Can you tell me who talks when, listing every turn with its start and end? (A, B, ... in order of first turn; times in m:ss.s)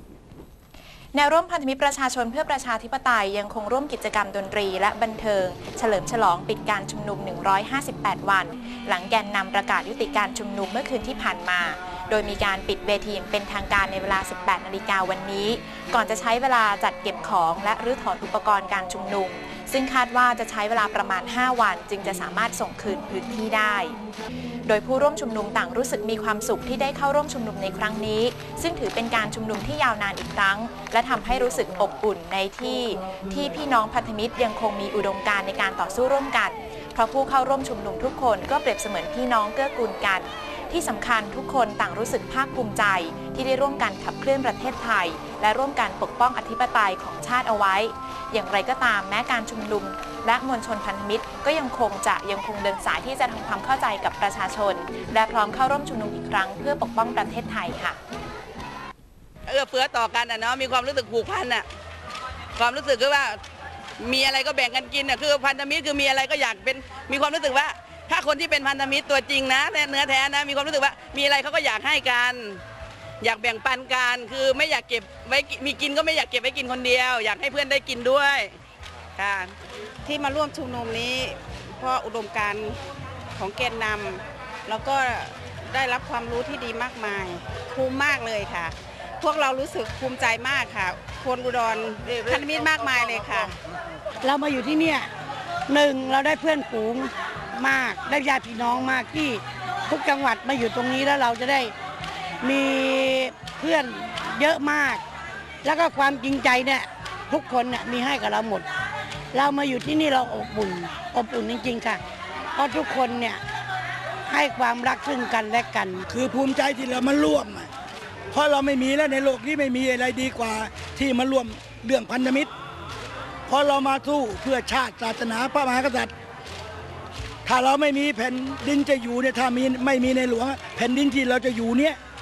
0:01.1-0:24.0 A
0:24.6-0:58.0 A
0:59.5-1:01.6 B
1:02.6-1:03.4 B
1:04.0-1:12.6 B
1:13.2-1:18.6 B
1:19.2-1:19.5 B
1:20.1-1:22.8 C
1:20.7-1:22.7 B
1:23.4-1:25.1 C
1:23.7-1:24.1 B
1:25.0-1:25.8 B
1:25.7-1:33.5 C
1:32.0-1:32.3 B
1:34.2-1:35.1 D
1:35.7-1:41.7 D
1:42.4-1:45.0 D
1:45.6-1:48.7 D
1:49.3-1:52.0 D
1:52.6-1:53.4 D
1:54.3-1:56.0 D
1:56.1-1:57.7 E
1:58.3-2:02.5 E
2:03.5-2:06.1 E
2:07.4-2:12.0 E